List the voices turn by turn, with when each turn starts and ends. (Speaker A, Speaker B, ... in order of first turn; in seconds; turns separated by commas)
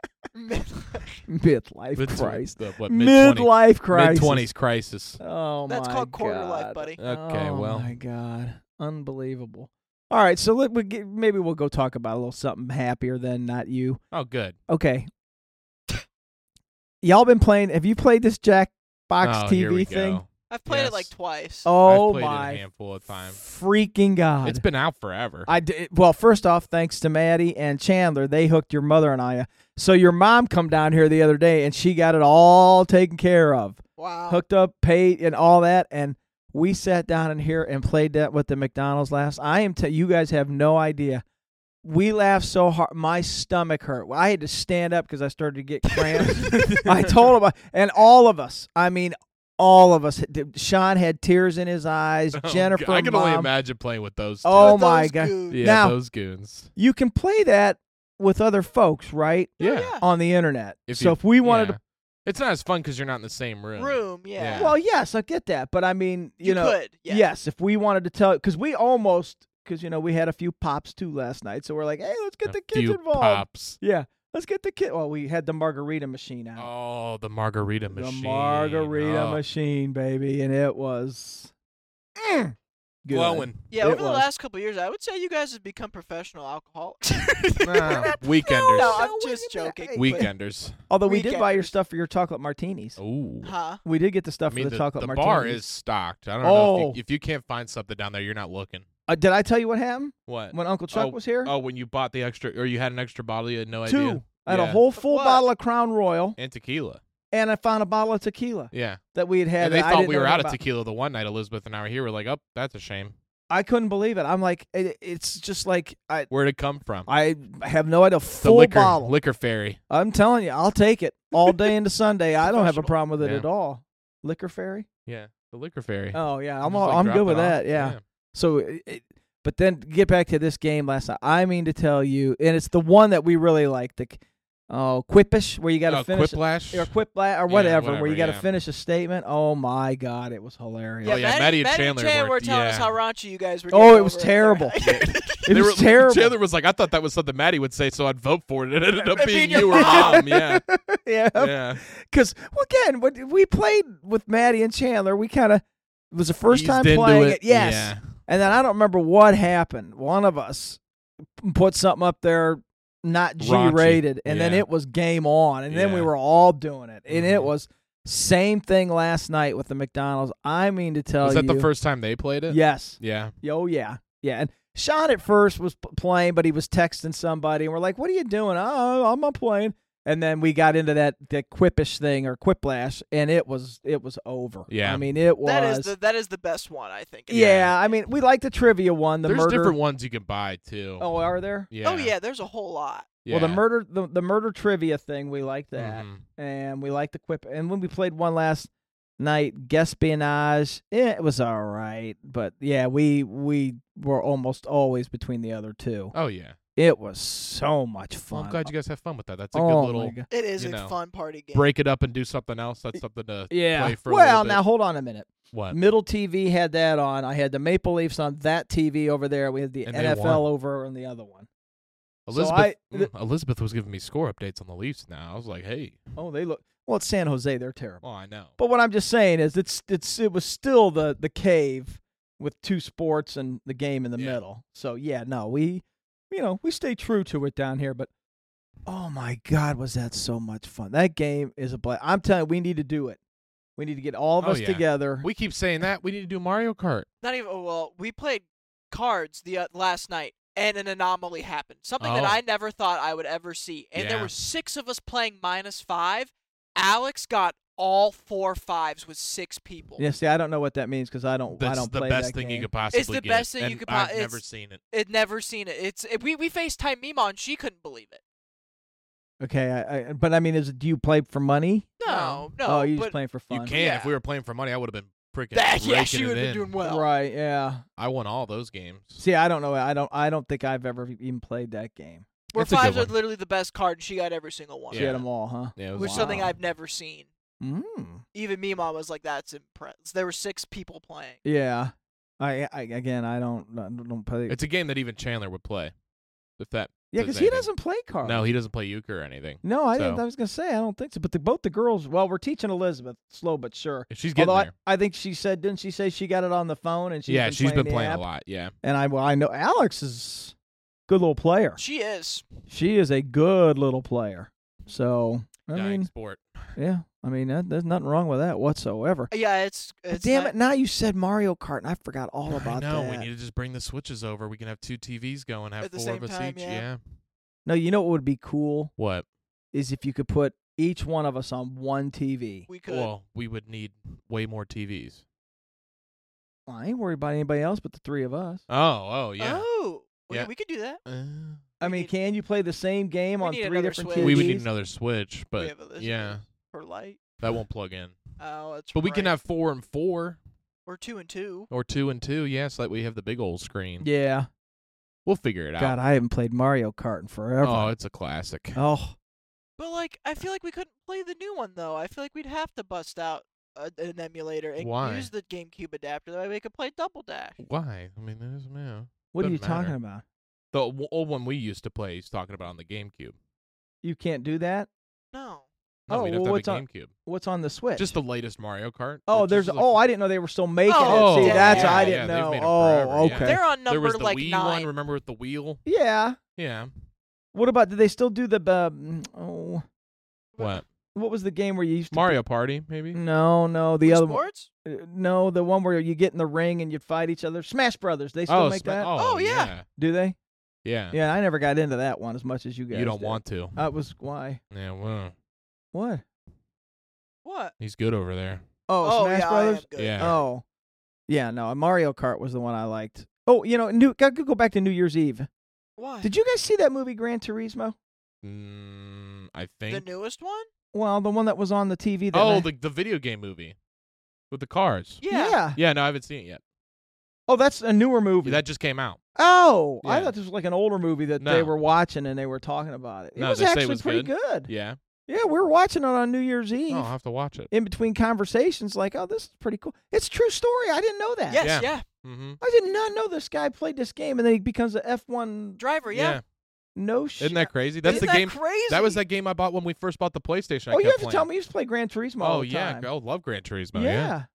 Speaker A: 0.3-1.2, Speaker B: 1.3-4.5, Speaker C: 1.9-5.2, Speaker B: 5.2-14.0, Speaker A: 5.7-7.0, Speaker C: 7.0-7.9, Speaker C: 14.1-14.6, Speaker B: 14.7-15.1, Speaker B: 17.0-20.2, Speaker C: 19.2-21.1, Speaker A: 20.5-21.7, Speaker B: 21.6-22.6, Speaker C: 21.8-23.4, Speaker B: 23.3-24.6, Speaker C: 24.4-25.5, Speaker B: 25.5-41.2, Speaker A: 34.0-34.4, Speaker B: 41.8-53.5, Speaker C: 46.4-47.3, Speaker C: 52.3-54.8, Speaker B: 54.4-56.0, Speaker A: 54.6-55.6, Speaker C: 55.5-56.7, Speaker B: 56.8-61.8, Speaker C: 59.6-60.0, Speaker A: 59.6-60.0, Speaker C: 60.9-64.8, Speaker A: 63.8-64.8, Speaker B: 64.6-76.7, Speaker A: 66.4-67.3, Speaker C: 72.5-73.8, Speaker C: 76.6-79.4, Speaker B: 77.9-81.5, Speaker B: 82.2-84.3, Speaker C: 83.1-83.7, Speaker A: 83.7-90.3, Speaker C: 87.6-89.1, Speaker B: 88.8-90.2, Speaker C: 90.0-90.8, Speaker B: 90.9-93.0, Speaker A: 91.1-91.7, Speaker C: 93.0-93.5, Speaker A: 93.4-93.8, Speaker B: 93.8-95.6, Speaker C: 94.5-98.8, Speaker B: 96.4-97.0, Speaker B: 99.1-101.5, Speaker C: 100.3-104.8, Speaker B: 103.8-106.4, Speaker A: 105.0-105.5, Speaker C: 106.4-107.0, Speaker B: 107.3-110.6, Speaker C: 108.7-109.0, Speaker C: 109.6-113.2, Speaker B: 113.5-116.3, Speaker C: 116.3-117.1, Speaker B: 117.1-119.1, Speaker C: 118.4-119.8, Speaker B: 119.9-124.9, Speaker A: 122.4-123.0, Speaker C: 123.2-123.5, Speaker C: 125.1-128.0, Speaker B: 126.1-141.3, Speaker C: 135.9-136.9, Speaker C: 137.5-138.5, Speaker A: 141.0-145.4, Speaker C: 141.0-142.9, Speaker B: 143.7-144.8, Speaker C: 144.8-150.6, Speaker B: 145.5-146.4, Speaker A: 149.1-150.2, Speaker B: 149.6-160.8, Speaker C: 151.3-151.8, Speaker C: 156.5-158.0, Speaker B: 161.4-171.7, Speaker C: 163.4-164.7, Speaker C: 165.7-166.1, Speaker C: 167.1-167.5, Speaker C: 171.2-173.3, Speaker B: 172.5-185.9, Speaker C: 184.7-185.0, Speaker A: 185.4-187.9, Speaker B: 187.3-189.8, Speaker C: 187.3-187.7, Speaker C: 189.2-191.1, Speaker B: 191.0-191.7, Speaker C: 191.7-192.1, Speaker A: 191.8-193.2, Speaker C: 193.2-193.6, Speaker B: 193.3-206.1, Speaker C: 195.8-196.2, Speaker C: 206.1-206.6, Speaker B: 206.8-208.7, Speaker C: 208.3-210.9, Speaker B: 209.5-210.3, Speaker A: 210.3-211.7, Speaker C: 211.5-214.6, Speaker B: 213.5-221.5, Speaker C: 215.5-215.8, Speaker C: 219.9-220.5, Speaker C: 222.3-226.0, Speaker B: 222.3-223.1, Speaker B: 226.2-228.0, Speaker C: 228.0-228.5, Speaker B: 228.6-238.1, Speaker B: 238.9-243.2, Speaker B: 243.8-245.3, Speaker C: 244.4-247.1, Speaker A: 247.2-260.0, Speaker C: 252.0-252.4, Speaker C: 254.0-254.3, Speaker B: 260.0-262.7, Speaker C: 261.6-264.8, Speaker A: 262.9-268.2, Speaker B: 269.4-273.8, Speaker A: 272.0-273.2, Speaker C: 273.5-276.7, Speaker A: 273.8-274.1, Speaker A: 275.5-277.1, Speaker B: 276.8-277.8, Speaker C: 278.0-279.2, Speaker B: 279.2-282.3, Speaker A: 282.5-285.2, Speaker C: 282.6-283.1, Speaker C: 284.9-286.5, Speaker B: 284.9-286.5, Speaker A: 285.9-287.3, Speaker B: 287.6-288.2, Speaker A: 288.4-291.4, Speaker B: 291.4-294.6, Speaker C: 294.5-295.9, Speaker C: 296.6-297.7, Speaker B: 297.1-298.5, Speaker C: 298.2-300.2, Speaker B: 299.6-308.3, Speaker C: 304.1-304.7, Speaker C: 307.3-308.7, Speaker B: 308.8-310.6, Speaker B: 311.1-311.8, Speaker A: 311.8-312.5, Speaker B: 312.7-316.1, Speaker C: 315.7-316.7, Speaker B: 316.8-319.3, Speaker A: 319.3-320.5, Speaker B: 320.1-323.3, Speaker C: 322.5-327.0, Speaker A: 325.8-326.9, Speaker B: 327.7-328.9, Speaker C: 329.0-329.3, Speaker B: 329.7-332.7, Speaker A: 332.7-333.1, Speaker C: 332.9-335.2, Speaker B: 336.7-338.6, Speaker C: 338.7-339.7, Speaker A: 339.4-341.0, Speaker C: 341.1-341.7, Speaker B: 341.8-344.7, Speaker A: 341.8-342.1, Speaker A: 343.4-344.6, Speaker C: 344.2-346.4, Speaker A: 345.6-347.2, Speaker C: 347.4-348.2, Speaker A: 348.4-349.4, Speaker C: 348.9-350.4, Speaker A: 350.9-351.7, Speaker C: 351.7-354.1, Speaker B: 354.0-354.5, Speaker C: 355.3-356.0, Speaker B: 355.8-357.9, Speaker C: 357.6-358.8, Speaker B: 358.8-359.2, Speaker A: 359.8-367.6, Speaker C: 364.8-365.3, Speaker C: 367.6-369.9, Speaker B: 369.3-370.2, Speaker C: 370.7-373.4, Speaker B: 374.0-374.9, Speaker A: 375.3-375.7, Speaker C: 376.1-377.1, Speaker B: 376.1-378.1, Speaker C: 378.0-380.0, Speaker B: 379.3-383.6, Speaker A: 380.9-382.2, Speaker C: 381.0-385.8, Speaker A: 383.3-384.9, Speaker B: 385.9-386.4, Speaker C: 386.6-386.9, Speaker B: 387.5-389.8, Speaker A: 390.6-390.8, Speaker C: 390.6-390.8, Speaker B: 391.1-392.4, Speaker C: 392.1-393.2, Speaker B: 393.1-399.1, Speaker A: 394.1-394.7, Speaker C: 398.5-399.9, Speaker A: 399.1-399.7, Speaker B: 400.0-400.4, Speaker C: 400.8-401.2, Speaker B: 401.1-404.6, Speaker C: 402.9-403.8, Speaker C: 404.7-405.3, Speaker B: 405.9-406.2, Speaker A: 407.4-407.7, Speaker C: 407.8-408.6, Speaker B: 408.9-410.6, Speaker A: 409.0-410.4, Speaker C: 410.0-410.4, Speaker B: 411.3-415.5, Speaker A: 416.0-416.3, Speaker B: 416.2-418.0, Speaker C: 418.4-420.0, Speaker A: 419.9-420.7, Speaker B: 420.9-422.7, Speaker C: 422.3-423.8, Speaker C: 424.5-426.6, Speaker A: 425.2-425.6, Speaker B: 425.3-425.8, Speaker B: 427.5-428.6, Speaker C: 428.4-429.2, Speaker B: 429.4-434.7, Speaker C: 430.0-430.3, Speaker C: 431.4-431.7, Speaker C: 433.4-435.0, Speaker B: 435.3-437.1, Speaker C: 436.9-437.7, Speaker B: 437.7-441.7, Speaker A: 441.5-442.1, Speaker C: 441.6-442.6, Speaker B: 442.6-445.8, Speaker A: 445.8-446.4, Speaker C: 446.1-446.4, Speaker B: 447.0-448.3, Speaker C: 447.4-451.5, Speaker A: 448.1-449.2, Speaker B: 450.9-453.1, Speaker C: 452.4-454.4, Speaker B: 453.9-454.5